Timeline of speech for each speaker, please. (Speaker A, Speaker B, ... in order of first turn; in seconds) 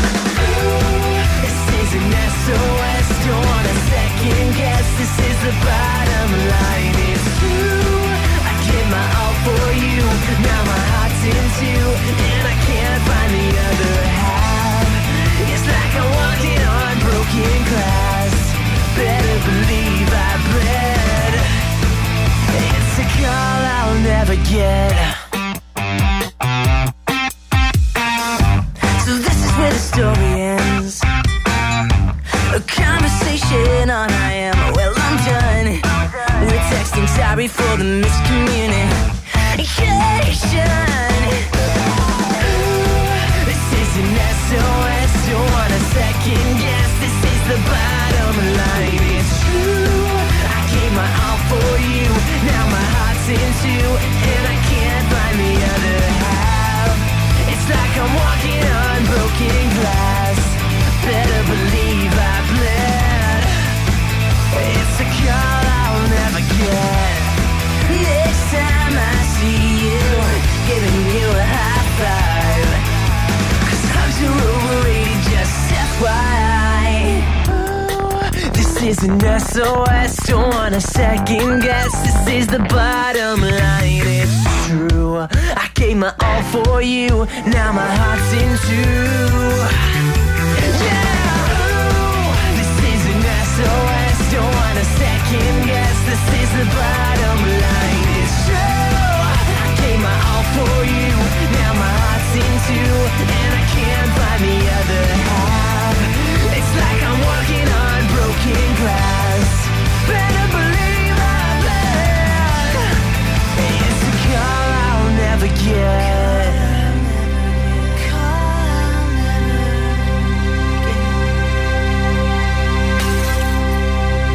Speaker A: 0.3-21.5, 22.5-25.2, 28.9-31.1, 32.5-39.0, 39.5-41.5, 42.4-63.6, 64.5-72.9, 73.6-89.7, 90.5-113.0, 113.5-120.2